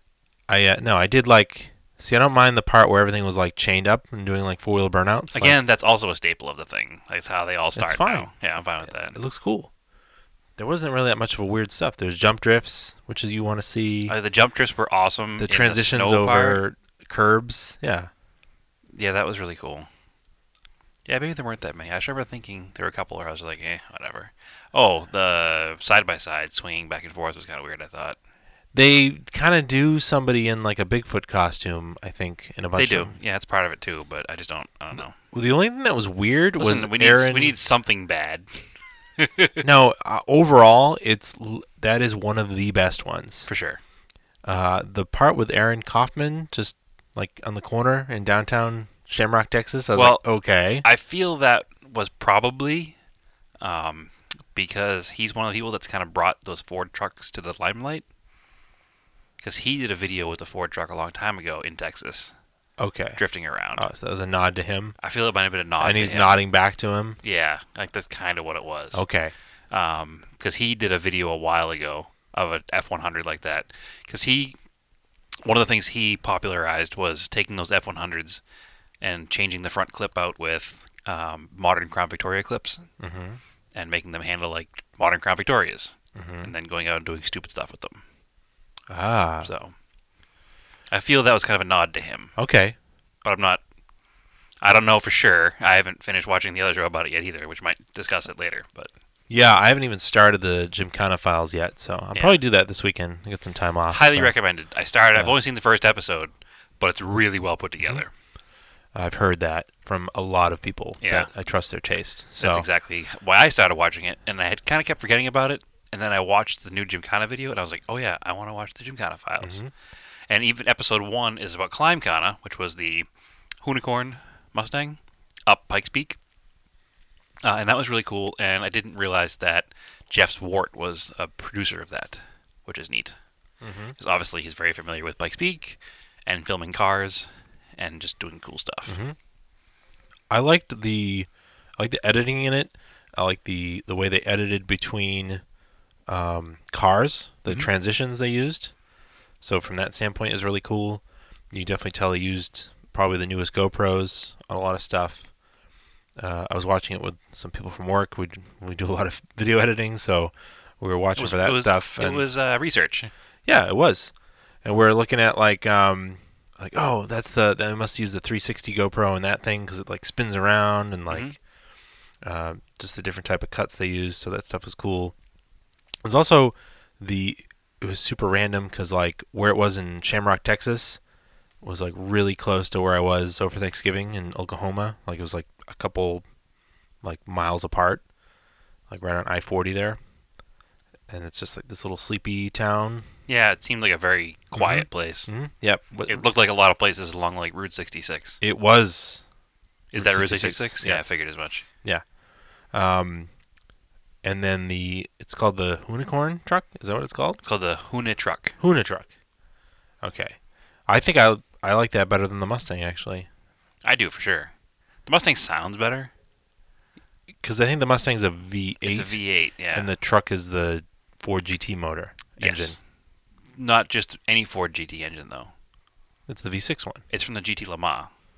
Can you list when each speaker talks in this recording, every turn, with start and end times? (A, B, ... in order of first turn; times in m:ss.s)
0:00.5-0:05.6 A
0:05.3-0:09.2 B
0:07.8-0:08.3 A
0:08.8-0:09.7 A
0:10.6-0:14.1 A
0:14.1-0:16.6 B
0:15.4-0:18.1 A
0:18.9-0:19.9 B
0:21.0-0:28.2 B
0:28.7-0:33.1 A
0:32.8-0:35.1 B
0:35.0-0:37.6 A
0:36.6-0:38.6 B
0:39.2-0:39.6 B
0:39.6-0:43.5 A
0:43.5-0:43.8 B
0:44.4-0:50.8 A
0:49.9-0:50.2 B
0:50.8-0:53.0 B
0:53.6-0:58.0 B
0:59.4-1:02.3 B
1:02.8-1:03.2 A
1:03.2-1:03.8 B
1:03.7-1:04.9 A
1:05.0-1:06.4 B
1:05.8-1:07.2 A
1:07.2-1:09.0 B
1:08.9-1:09.3 A
1:09.7-1:14.6 B
1:15.4-1:18.4 B
1:19.0-1:22.9 B
1:23.0-1:23.4 A
1:23.7-1:28.0 B
1:26.1-1:26.5 A
1:28.9-1:29.5 A
1:29.4-1:29.7 B
1:30.9-1:32.3 B
1:32.4-1:32.7 A
1:33.2-1:33.6 B
1:34.6-1:38.9 B
1:39.3-1:44.3 A
1:43.9-1:48.1 B
1:48.9-1:52.6 A
1:51.0-1:51.3 B
1:52.4-1:59.6 B
1:59.4-1:59.7 A
2:00.3-2:03.1 B
2:03.6-2:06.2 B
2:07.4-2:13.2 B
2:13.6-2:14.0 A
2:14.0-2:19.0 B
2:18.9-2:19.2 A
2:20.3-2:25.4 A
2:26.1-2:28.7 A
2:29.4-2:35.2 A
2:36.2-2:42.2 A
2:41.2-2:43.1 B
2:43.4-2:44.1 A
2:44.6-2:51.3 A
2:52.2-2:55.1 A
2:56.0-3:01.0 A
3:01.6-3:06.2 A
3:07.0-3:08.0 A
3:08.9-3:10.0 A
3:11.1-3:13.0 A
3:13.3-3:15.3 B
3:14.6-3:16.3 A
3:16.1-3:18.4 B
3:18.4-3:19.2 A
3:19.9-3:21.6 B
3:20.0-3:21.1 A
3:22.7-3:23.3 A
3:24.2-3:27.4 A
3:27.4-3:28.6 B
3:28.6-3:29.1 A
3:30.0-3:30.4 A
3:30.9-3:33.3 A
3:33.8-3:34.5 B
3:35.0-3:36.1 B
3:37.4-3:39.2 A
3:38.8-3:39.9 B
3:39.7-3:42.8 A
3:42.4-3:42.8 B
3:43.6-3:45.5 B
3:46.3-3:47.0 A
3:47.1-3:48.1 B